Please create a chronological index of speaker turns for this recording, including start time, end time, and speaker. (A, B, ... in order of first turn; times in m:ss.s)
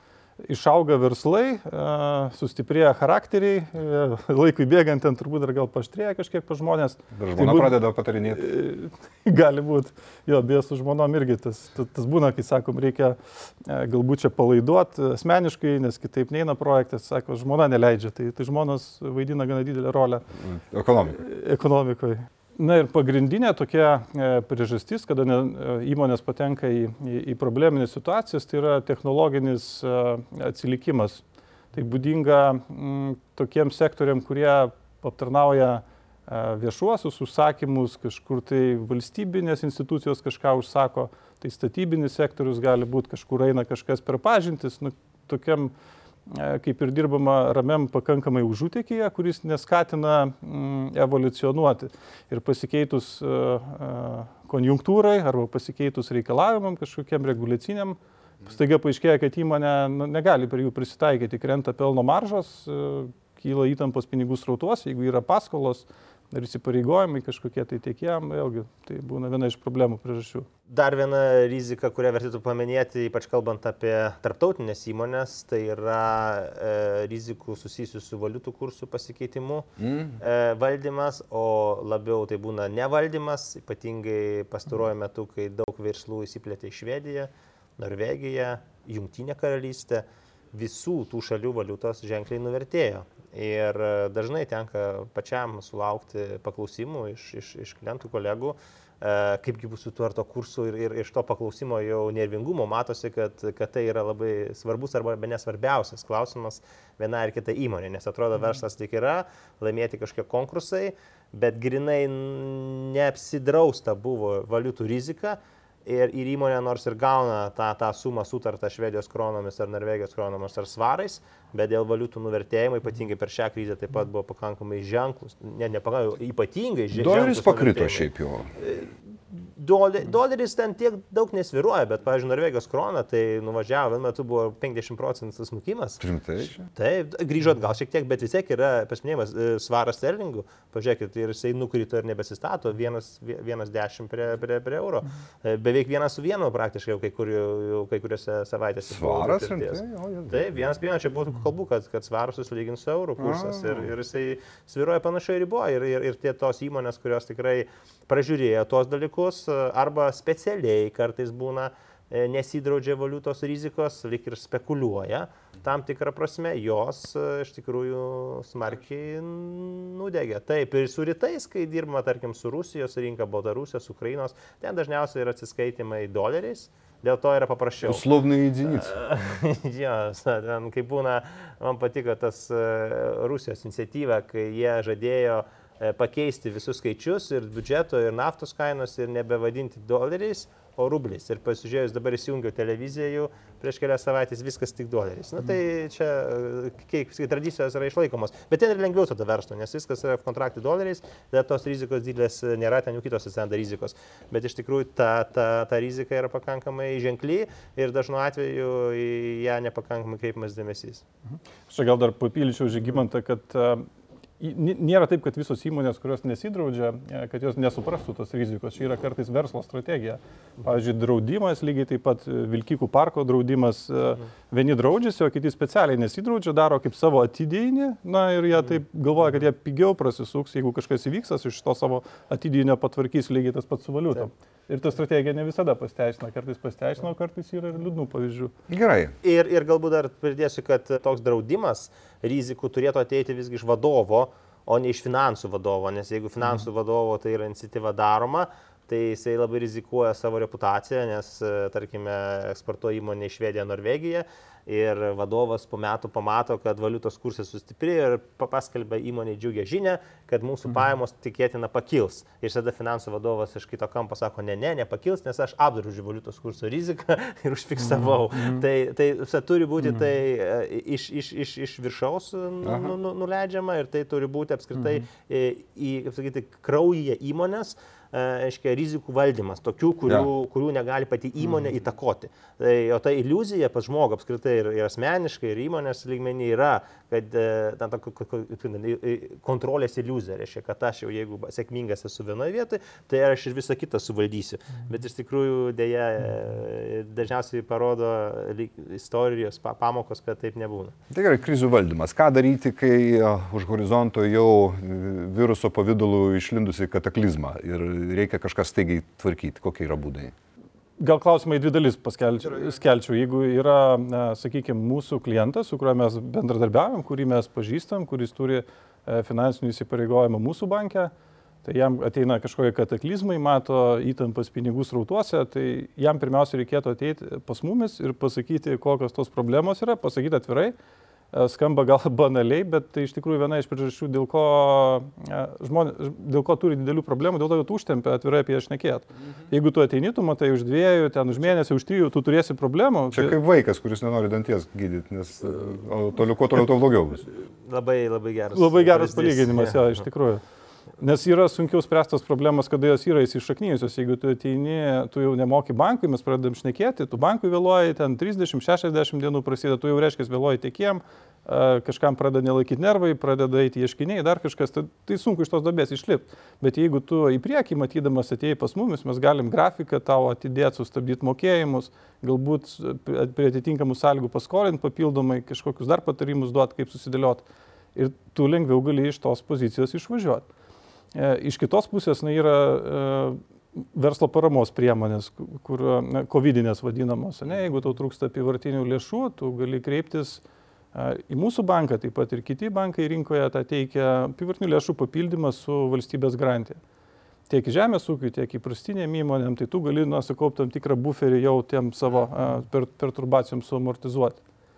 0:00.4-0:20.3 A
0:07.1-0:08.4 B
0:20.4-0:21.2 B
0:21.2-0:45.7 A
0:46.3-1:10.5 A
1:10.7-2:16.0 C
1:19.8-1:20.2 B
2:06.9-2:08.5 B
2:16.0-2:16.6 B
2:16.6-2:58.1 C
2:28.9-2:30.5 B
2:33.2-2:33.9 B
2:57.8-2:59.0 B
2:58.6-3:31.0 C
3:31.7-3:33.9 A
3:34.4-3:58.5 A
3:58.7-3:59.2 B
3:59.2-5:01.0 C
4:32.6-4:32.9 B
5:01.1-5:10.3 B
5:11.0-5:21.1 A
5:21.6-5:30.8 A
5:31.3-5:43.4 A
5:43.1-5:47.3 B
5:47.6-5:49.9 C
5:48.6-5:50.4 A
5:51.0-6:17.4 A
6:18.0-6:20.5 A
6:21.1-6:30.4 A
6:30.9-6:36.8 A
6:37.5-6:44.4 A